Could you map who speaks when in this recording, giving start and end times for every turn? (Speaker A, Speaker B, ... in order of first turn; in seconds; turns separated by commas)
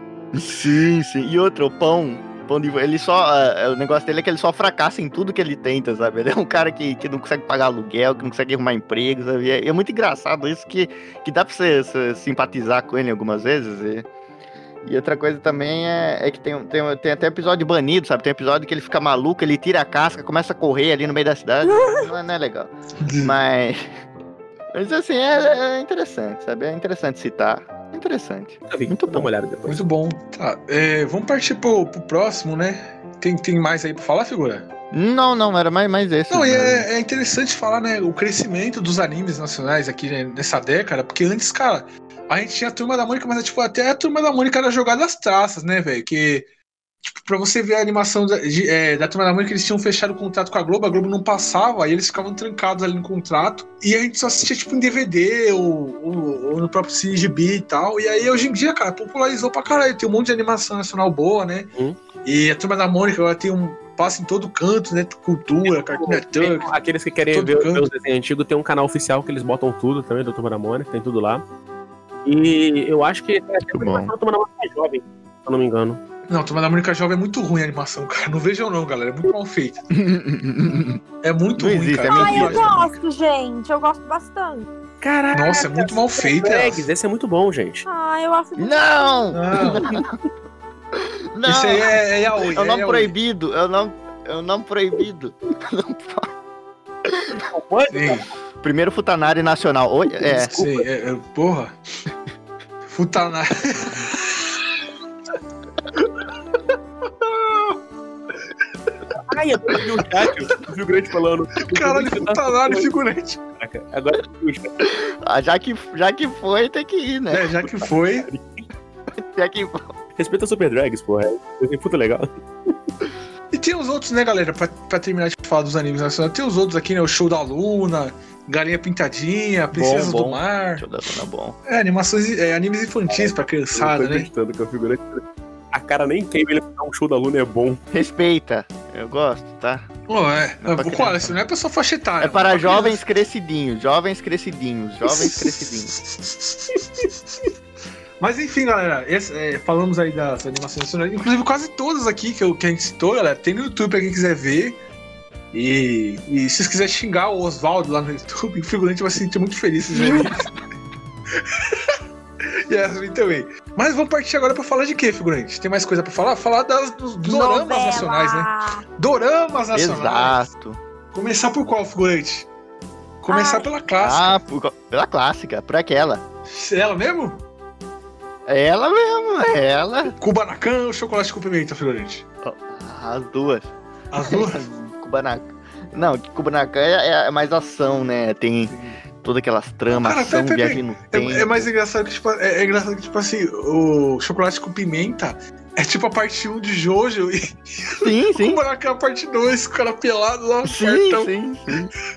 Speaker A: 0.3-14.1, Speaker A: 14.8-23.8, Speaker B: 23.0-23.4, Speaker A: 24.7-29.3, Speaker C: 28.7-29.8, Speaker B: 29.7-34.7, Speaker A: 34.9-36.9, Speaker B: 36.3-46.5, Speaker B: 47.0-61.7, Speaker B: 62.2-66.7, Speaker C: 65.6-71.4, Speaker B: 67.3-67.9, Speaker C: 72.2-76.0, Speaker A: 73.7-74.1, Speaker B: 76.3-79.8, Speaker A: 79.9-81.0, Speaker B: 81.2-82.9, Speaker A: 81.6-82.9, Speaker D: 82.1-84.7, Speaker C: 85.0-87.9, Speaker B: 85.3-86.9, Speaker D: 87.9-89.3, Speaker A: 88.6-90.1, Speaker B: 89.3-89.9, Speaker A: 91.0-92.0, Speaker B: 91.5-93.1, Speaker A: 92.5-96.3, Speaker A: 97.1-97.3, Speaker C: 97.4-98.2, Speaker B: 97.9-98.3, Speaker A: 98.6-100.5, Speaker C: 100.2-100.8, Speaker B: 100.5-101.8, Speaker B: 102.9-104.6, Speaker B: 107.2-107.8, Speaker C: 109.2-112.9, Speaker B: 111.7-113.4, Speaker C: 113.6-114.8, Speaker A: 114.8-117.9, Speaker B: 117.3-118.3, Speaker C: 118.2-118.7, Speaker A: 119.1-119.9, Speaker C: 120.2-122.8, Speaker B: 123.5-130.9, Speaker A: 129.7-131.6, Speaker B: 131.7-134.3, Speaker C: 133.1-137.8, Speaker A: 137.9-139.9, Speaker B: 140.1-143.0, Speaker A: 140.6-141.3, Speaker A: 142.2-145.9, Speaker B: 145.1-147.1, Speaker B: 148.2-154.8, Speaker B: 155.5-160.5, Speaker B: 161.4-162.0, Speaker B: 162.7-170.4, Speaker D: 167.2-168.8, Speaker A: 169.7-170.8, Speaker B: 171.1-172.5, Speaker B: 173.2-174.4, Speaker D: 173.3-173.7, Speaker A: 174.0-176.2, Speaker B: 176.5-177.4, Speaker A: 178.5-180.2, Speaker B: 180.2-182.2, Speaker A: 182.4-191.7, Speaker B: 184.1-184.6, Speaker B: 188.7-189.0, Speaker B: 189.9-201.3, Speaker A: 198.0-198.6, Speaker A: 200.6-201.9